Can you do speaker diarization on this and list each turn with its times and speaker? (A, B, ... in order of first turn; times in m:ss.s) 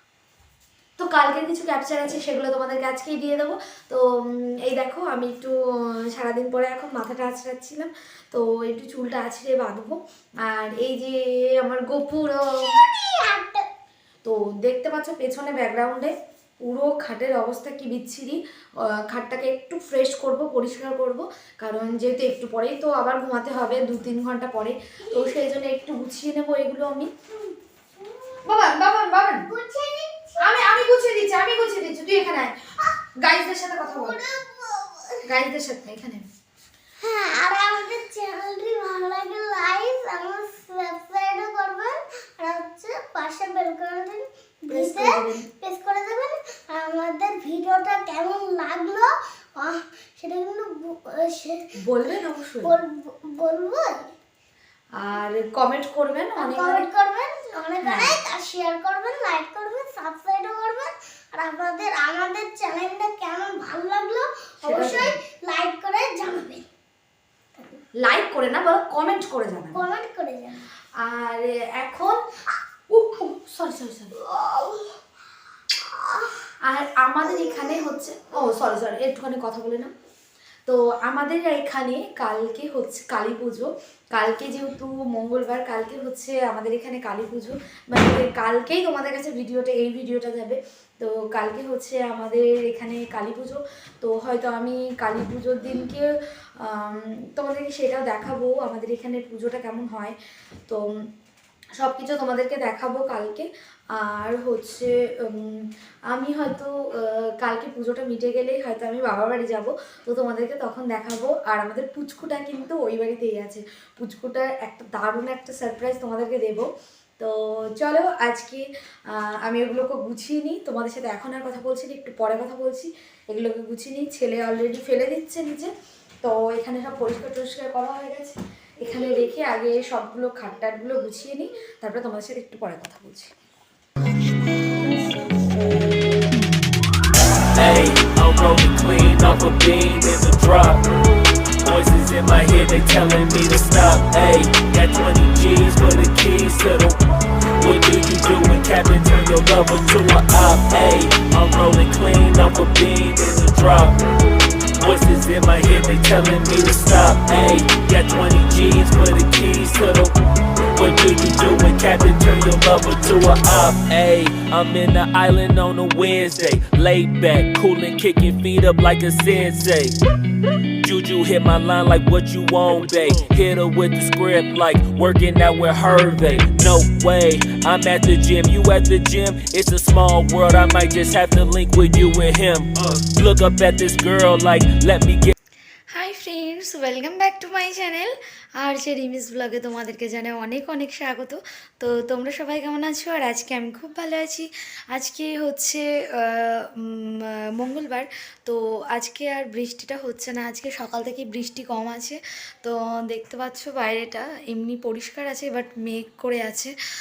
0:01.0-0:12.7 A
0:12.8-0:13.7 B
0:14.2-0:27.1 A
0:27.5-0:28.4 B
0:28.4-0:29.5 A
0:29.4-0:30.6 B
0:30.4-0:32.5 A
0:33.2-0:34.2 A
0:33.8-0:35.2 B
0:35.2-0:36.2 A
0:37.0-0:51.7 B
0:44.7-0:45.5 A
0:51.8-0:52.8 A
0:52.6-0:54.1 B
0:55.0-0:56.9 A
0:56.4-1:06.6 B
0:57.8-0:58.2 A
1:04.6-1:05.2 A
1:07.6-1:07.8 B
1:08.0-1:09.8 A
1:09.7-1:10.7 B
1:11.0-1:12.2 A
1:12.9-1:14.2 A
1:14.2-1:15.0 B
1:15.9-1:16.3 B
1:16.7-1:19.9 A
1:20.7-1:36.1 A
1:36.6-1:40.1 A
1:41.8-2:05.7 A
2:06.2-2:13.3 A
2:17.5-2:20.8 C
2:21.6-2:27.0 C
2:27.6-2:34.0 C
2:34.8-2:40.1 C
2:40.8-2:50.0 C
2:50.8-3:05.3 C
3:05.9-3:26.7 A